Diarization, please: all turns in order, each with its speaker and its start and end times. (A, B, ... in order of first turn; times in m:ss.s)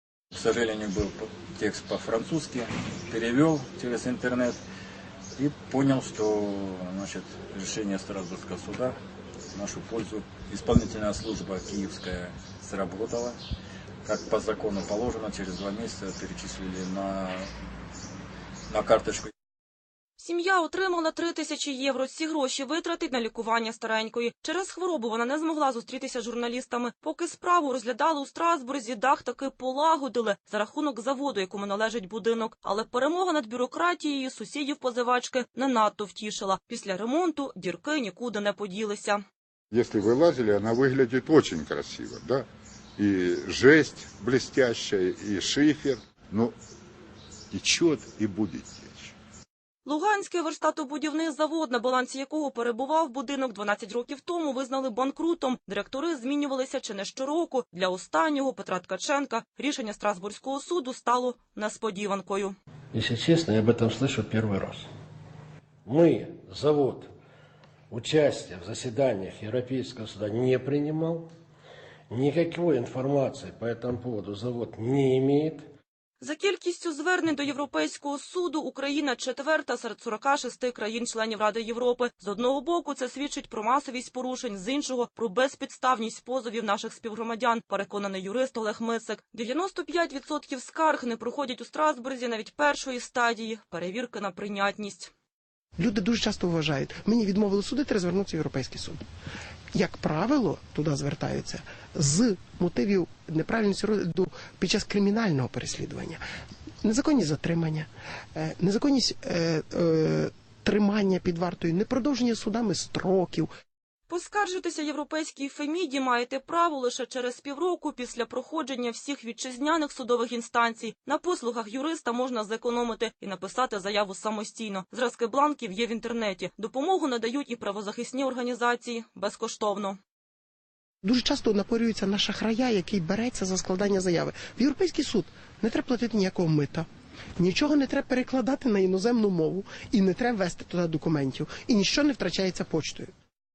0:00.3-0:04.6 A
0:05.4-0:09.0 A
0:09.5-0:13.4 A
0:14.0-0:17.5 A
0:18.7-0:19.3 A
0:20.2-0:39.2 B
0:39.7-0:42.4 C
0:43.0-0:46.5 C
0:47.5-0:49.1 C
0:49.8-1:02.6 B
1:02.9-1:04.9 D
1:05.8-1:07.1 D
1:07.9-1:11.3 D
1:12.1-1:15.6 D
1:16.2-1:35.1 B
1:35.8-1:39.0 E
1:39.7-1:46.2 E
1:46.8-1:53.5 E
1:54.1-2:10.0 B
2:11.0-2:16.9 E
2:17.4-2:23.1 E